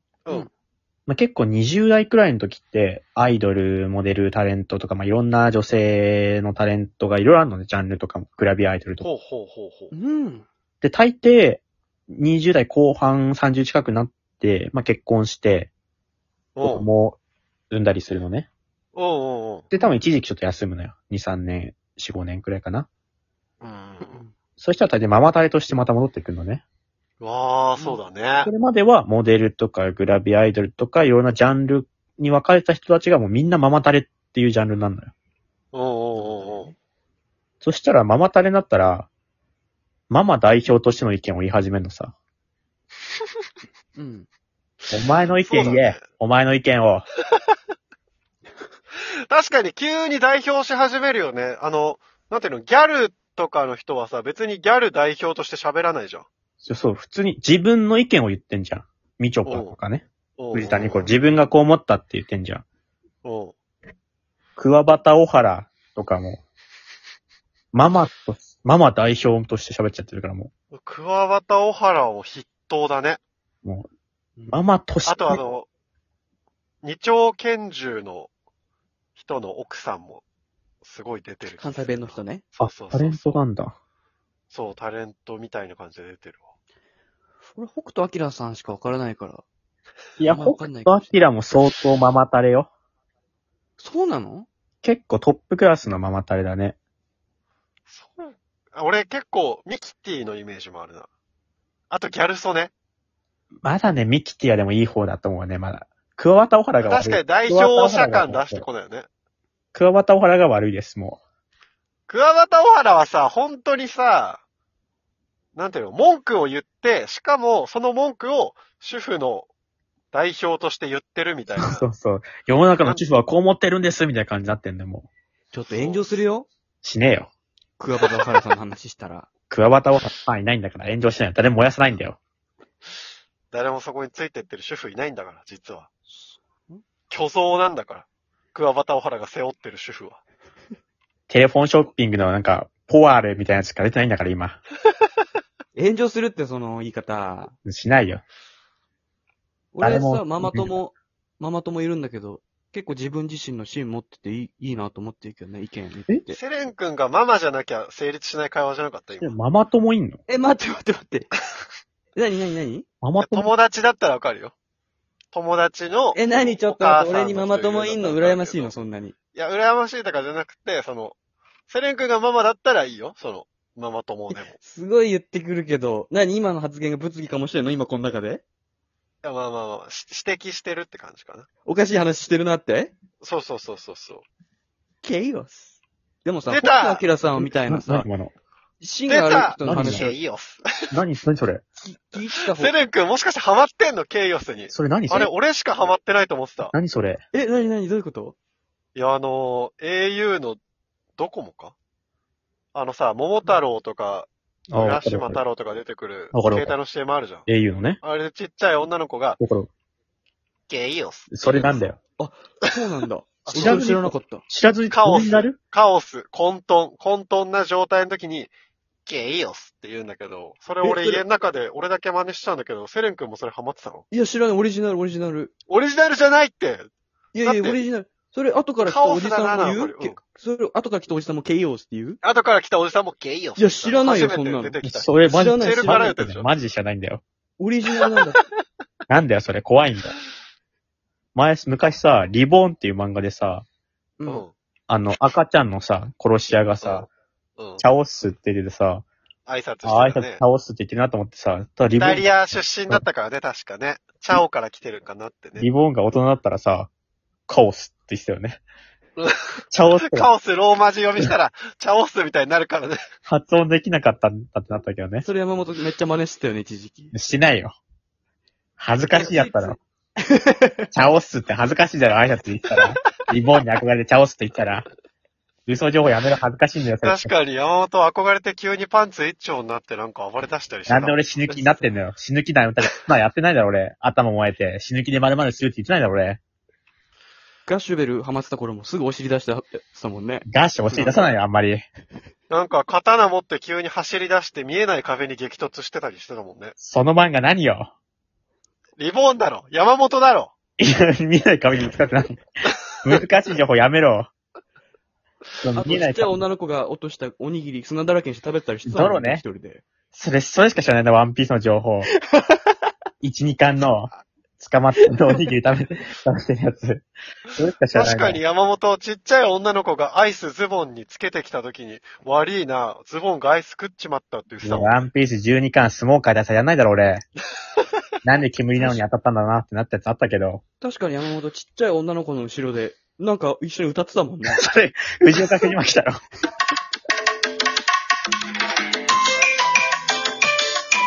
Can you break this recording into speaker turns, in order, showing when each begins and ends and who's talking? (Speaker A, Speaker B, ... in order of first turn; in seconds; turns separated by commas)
Speaker A: 1.1-9.1, Speaker B: 9.0-9.9, Speaker C: 9.9-10.4, Speaker A: 10.8-15.7, Speaker B: 16.6-16.9, Speaker A: 16.6-17.2, Speaker A: 17.7-18.5, Speaker B: 18.9-19.7, Speaker A: 19.7-22.9, Speaker B: 23.6-24.2, Speaker C: 24.0-24.3, Speaker A: 24.6-26.6, Speaker B: 27.2-28.5, Speaker A: 28.4-35.1, Speaker B: 35.7-36.7, Speaker C: 36.1-36.7, Speaker A: 37.6-39.1, Speaker A: 40.1-42.1, Speaker C: 44.0-44.3, Speaker A: 44.9-47.0, Speaker B: 45.4-46.0, Speaker B: 49.3-56.3, Speaker A: 56.6-62.6, Speaker B: 59.4-59.8, Speaker B: 60.4-61.1, Speaker B: 63.2-63.5, Speaker A: 64.5-66.4, Speaker A: 67.7-70.5, Speaker B: 70.7-73.2, Speaker A: 74.5-75.4, Speaker B: 75.0-75.7, Speaker B: 76.8-78.3, Speaker B: 79.2-80.2, Speaker B: 80.8-83.4, Speaker C: 81.5-82.4, Speaker A: 82.6-83.7, Speaker B: 84.5-86.5, Speaker C: 87.5-89.4, Speaker A: 90.2-92.7, Speaker C: 90.2-91.1, Speaker C: 93.8-94.5, Speaker A: 94.8-96.8, Speaker B: 97.9-101.1, Speaker B: 101.9-102.7, Speaker A: 103.6-108.7, Speaker B: 106.8-109.1, Speaker A: 109.7-111.2, Speaker B: 112.1-114.4, Speaker B: 115.5-119.5, Speaker B: 120.1-121.8, Speaker A: 121.6-125.1, Speaker C: 125.5-126.5, Speaker B: 125.7-126.1, Speaker A: 126.8-127.3, Speaker C: 127.8-129.3, Speaker A: 129.5-132.2, Speaker B: 133.5-135.9, Speaker C: 136.1-136.8, Speaker B: 137.1-140.2, Speaker A: 141.3-144.6, Speaker C: 145.7-147.5, Speaker A: 147.6-148.2, Speaker C: 149.7-156.4, Speaker A: 149.8-150.8, Speaker B: 156.3-159.3, Speaker A: 159.2-160.2, Speaker C: 160.3-161.3, Speaker C: 162.2-162.8, Speaker A: 163.0-163.5, Speaker B: 163.2-164.5, Speaker B: 165.3-168.8, Speaker C: 166.1-169.1, Speaker B: 169.3-171.2, Speaker B: 171.7-174.5, Speaker C: 174.3-178.4, Speaker B: 179.2-181.5, Speaker C: 181.6-182.9, Speaker B: 183.2-184.2, Speaker C: 185.0-188.1, Speaker B: 186.5-187.0, Speaker A: 187.4-188.3, Speaker C: 188.8-190.1, Speaker B: 189.1-190.6, Speaker A: 189.6-190.1, Speaker A: 190.9-191.6, Speaker C: 191.8-192.7, Speaker B: 192.5-196.7, Speaker A: 194.7-195.3, Speaker A: 196.7-197.2, Speaker C: 197.3-198.3, Speaker B: 198.9-200.6, Speaker B: 201.2-201.7, Speaker B: 202.7-207.5, Speaker A: 204.7-205.4, Speaker A: 206.3-206.8, Speaker A: 207.5-208.0, Speaker B: 208.0-209.4, Speaker A: 209.4-209.7, Speaker B: 210.7-211.8, Speaker A: 211.3-212.0, Speaker C: 212.2-214.4, Speaker B: 213.5-213.9, Speaker A: 213.5-215.6, Speaker B: 214.9-218.5, Speaker B: 219.1-224.0, Speaker C: 220.8-221.2, Speaker C: 224.1-225.5, Speaker B: 225.7-226.9, Speaker C: 227.3-232.2, Speaker B: 227.4-227.8, Speaker B: 228.8-230.2, Speaker B: 232.2-236.5, Speaker C: 233.6-236.1, Speaker A: 234.8-237.2, Speaker C: 237.6-238.4, Speaker A: 239.1-240.1, Speaker A: 241.3-243.7, Speaker C: 244.2-244.4, Speaker B: 244.3-244.5, Speaker A: 244.9-247.1, Speaker B: 246.8-247.1, Speaker B: 247.6-247.8, Speaker A: 247.8-249.1, Speaker B: 249.4-250.4, Speaker A: 249.8-252.3, Speaker B: 252.0-255.7, Speaker A: 255.6-256.9, Speaker A: 257.5-258.6, Speaker A: 259.7-260.3, Speaker B: 259.9-263.0, Speaker A: 263.3-265.2, Speaker C: 265.2-267.1, Speaker A: 267.1-267.8, Speaker A: 268.8-269.8, Speaker C: 269.1-270.9, Speaker A: 270.9-274.9, Speaker A: 275.7-277.3, Speaker B: 277.0-281.4, Speaker A: 280.9-286.4, Speaker C: 281.5-281.9, Speaker C: 287.7-291.3, Speaker A: 290.4-291.9, Speaker B: 292.5-296.7, Speaker A: 296.8-297.9, Speaker B: 299.0-300.5, Speaker A: 300.8-302.4, Speaker A: 303.0-304.3, Speaker A: 305.6-306.4, Speaker C: 305.7-309.8, Speaker A: 308.9-309.4, Speaker A: 310.1-312.1, Speaker A: 313.2-318.4, Speaker B: 317.9-324.9, Speaker A: 324.6-327.2, Speaker A: 328.2-330.6, Speaker C: 330.8-334.6, Speaker A: 334.5-336.2